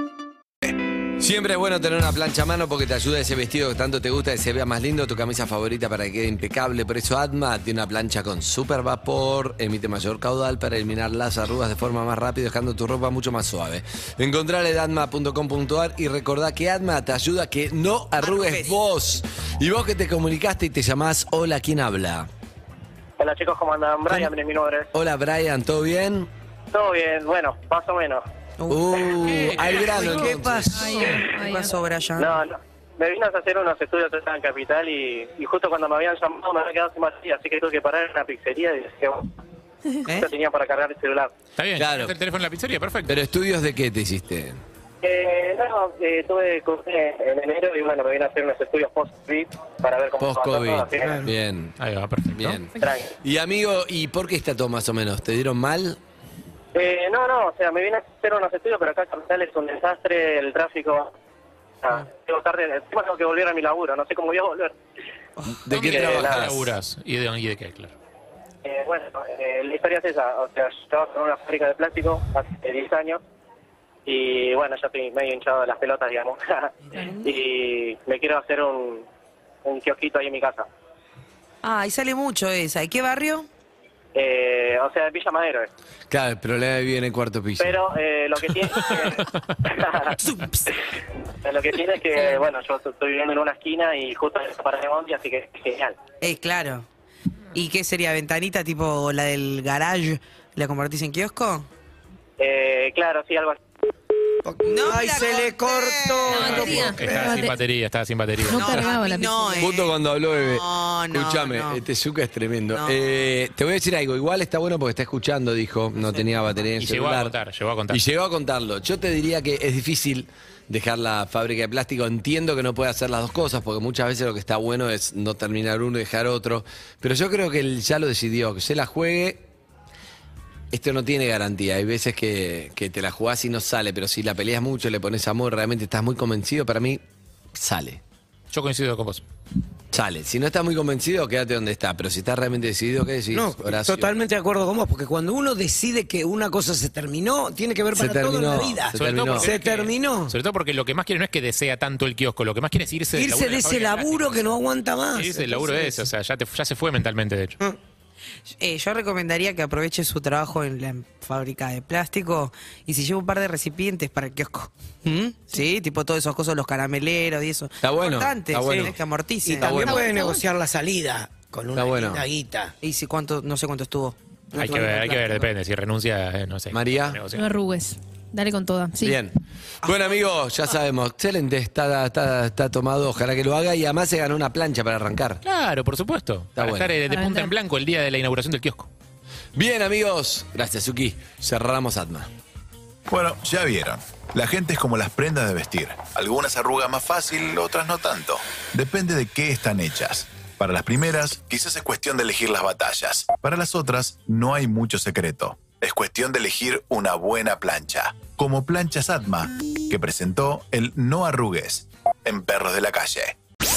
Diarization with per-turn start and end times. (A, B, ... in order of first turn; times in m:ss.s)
0:01.2-0:22.3 A
0:23.2-0:24.9 B
0:24.9-0:26.3 A
0:26.7-0:28.2 B
0:28.6-0:32.4 C
0:28.7-0:30.9 A
0:30.7-0:31.7 D
0:32.2-0:39.3 B
0:40.1-0:41.3 B
0:41.6-0:43.2 E
0:41.8-0:42.2 A
0:43.1-0:44.6 A
0:45.0-0:51.2 B
0:50.2-0:51.7 A
0:51.0-0:51.3 F
0:51.8-0:52.7 E
0:52.3-0:52.7 A
0:52.8-0:53.1 B
0:53.2-0:56.0 A
0:56.7-1:01.1 B
1:01.8-1:04.7 B
1:05.5-1:06.8 A
1:05.7-1:07.9 E
1:05.7-1:06.4 B
1:08.6-1:13.2 B
1:14.0-1:16.7 B
1:16.9-1:17.4 C
1:17.2-1:19.0 B
1:19.6-1:20.7 B
1:21.6-1:23.5 C
1:24.1-1:25.7 B
1:26.1-1:27.8 A
1:27.6-1:30.1 B
1:30.2-1:30.6 C
1:31.4-1:36.0 B
1:36.2-1:36.8 C
1:37.5-1:41.7 C
1:42.4-1:43.6 B
1:44.4-1:47.4 F
1:44.6-1:46.7 C
1:46.3-1:47.6 D
1:46.4-1:48.9 E
1:48.4-1:49.7 D
1:48.5-1:51.8 C
1:49.6-1:57.3 A
1:52.7-1:53.0 C
1:56.0-1:56.3 C
1:56.8-1:58.0 E
1:57.9-2:09.4 A
2:10.7-2:17.0 A
2:17.5-2:18.0 A
2:18.5-2:19.2 E
2:19.9-2:24.1 A
2:23.3-2:30.3 F
2:27.9-2:29.5 A
2:28.9-2:34.6 E
2:33.1-2:36.1 F
2:35.1-2:37.6 E
2:38.5-2:49.8 C
2:47.8-2:48.9 A
2:48.6-2:52.7 F
2:49.6-2:50.0 A
2:49.7-2:50.4 D
2:51.7-2:52.2 A
2:52.8-2:55.4 C
2:54.6-2:57.5 E
2:56.7-2:57.2 A
2:57.3-2:59.2 D
2:59.0-3:05.4 A
3:05.4-3:08.9 E
3:06.6-3:07.0 A
3:07.1-3:07.5 D
3:09.5-3:12.3 A
3:13.1-3:33.3 G